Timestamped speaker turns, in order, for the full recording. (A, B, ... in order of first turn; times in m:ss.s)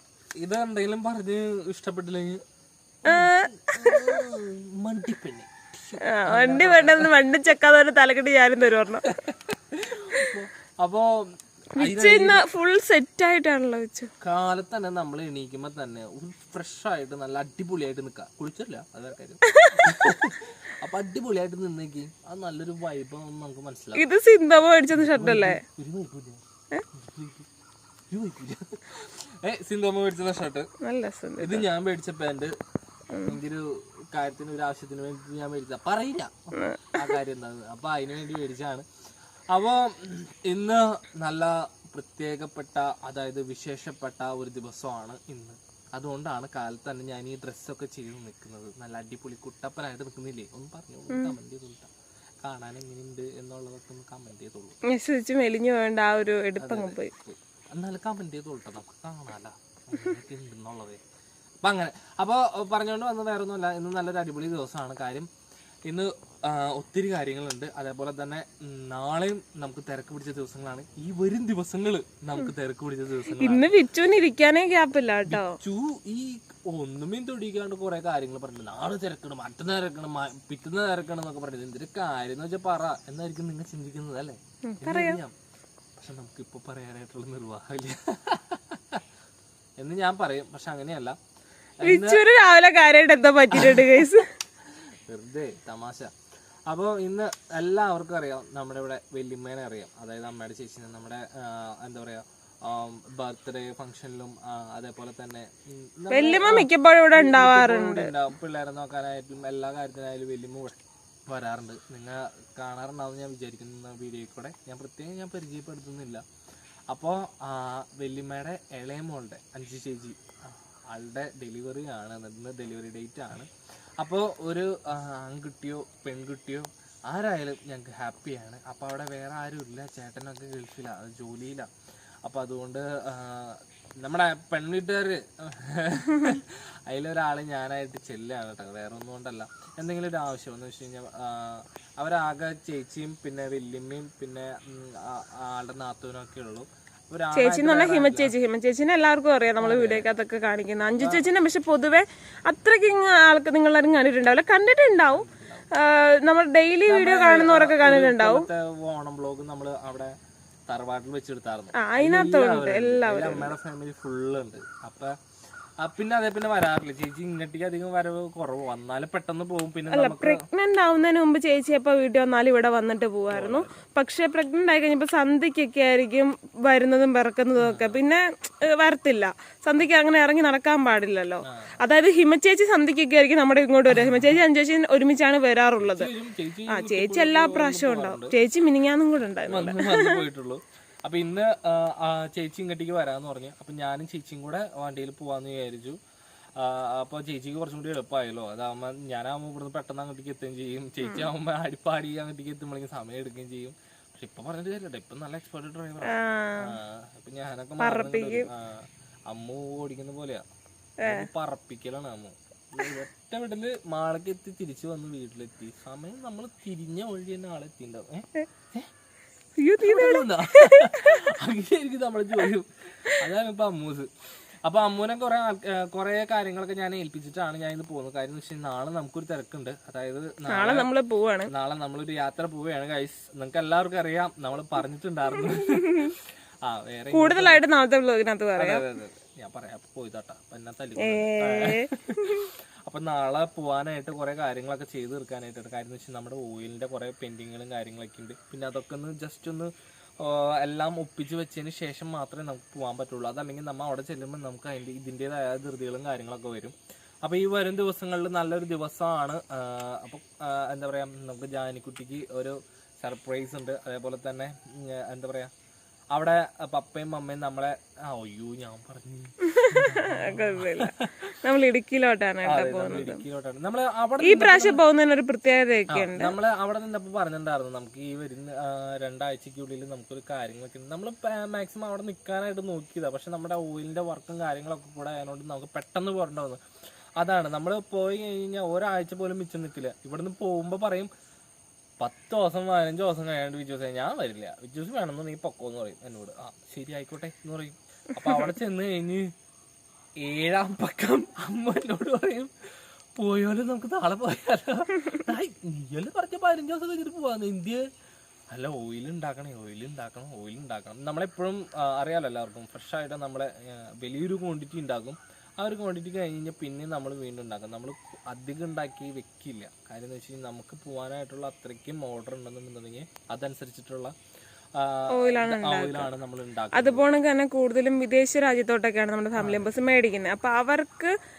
0:00.4-0:02.4 A
0:03.0-0:07.2 A
0:03.1-0:04.2 B
0:06.1-0:09.2 B
0:09.0-0:12.5 A
0:11.8-0:14.1 B
0:14.2-0:24.1 A
0:19.4-0:20.1 B
0:24.0-0:25.6 B
0:24.9-0:27.5 A
0:28.1-0:30.7 A
0:30.8-0:31.6 B
0:31.4-0:32.5 A
0:33.1-0:33.4 B
0:33.2-0:38.9 A
0:36.6-0:37.2 B
0:39.5-0:51.9 A
0:51.1-0:51.4 B
0:52.4-0:54.8 A
0:54.9-0:57.1 B
0:56.6-1:01.0 A
1:01.6-1:05.3 A
1:05.9-1:13.8 A
1:13.4-1:15.6 B
1:15.3-1:25.3 A
1:24.6-1:25.2 B
1:26.0-1:29.0 A
1:29.8-1:31.2 A
1:31.8-1:32.2 A
1:31.8-1:34.3 B
1:33.5-1:34.2 A
1:34.7-1:36.1 A
1:36.7-1:56.2 A
1:46.1-1:48.1 B
1:56.9-2:00.2 A
2:00.9-2:03.5 A
2:04.0-2:11.7 A
2:12.2-2:28.3 A
2:27.4-2:38.5 B
2:29.6-2:30.1 A
2:30.9-2:31.2 A
2:35.1-2:35.7 A
2:36.9-2:40.1 A
2:40.7-2:45.2 A
2:41.8-2:43.5 B
2:45.8-2:50.4 A
2:49.9-3:06.1 B
2:53.3-2:53.9 A
2:57.6-2:58.0 A
3:01.5-3:01.8 A
3:03.9-3:04.4 A
3:05.8-3:08.4 A
3:06.7-3:10.2 B
3:09.5-3:16.0 A
3:16.6-3:30.4 A
3:21.0-3:21.3 B
3:26.1-3:26.7 B
3:27.8-3:28.5 B
3:31.0-3:38.9 A
3:39.6-3:41.3 B
3:39.8-3:44.1 A
3:44.6-3:50.9 A
3:50.5-3:51.5 B
3:51.5-3:57.6 A
3:55.4-3:56.1 B
3:57.1-3:58.8 B
3:58.6-4:25.5 A
4:01.0-4:02.5 B
4:26.1-4:31.4 A
4:29.4-4:33.2 B
4:32.4-4:34.8 A
4:34.2-4:36.3 B
4:35.9-4:46.6 A
4:47.2-4:51.1 A
4:52.0-4:59.3 A
5:00.2-5:07.8 A
5:08.5-5:24.1 A
5:24.8-5:27.1 A
5:25.1-5:26.1 B
5:26.7-5:31.1 B
5:29.4-5:29.7 A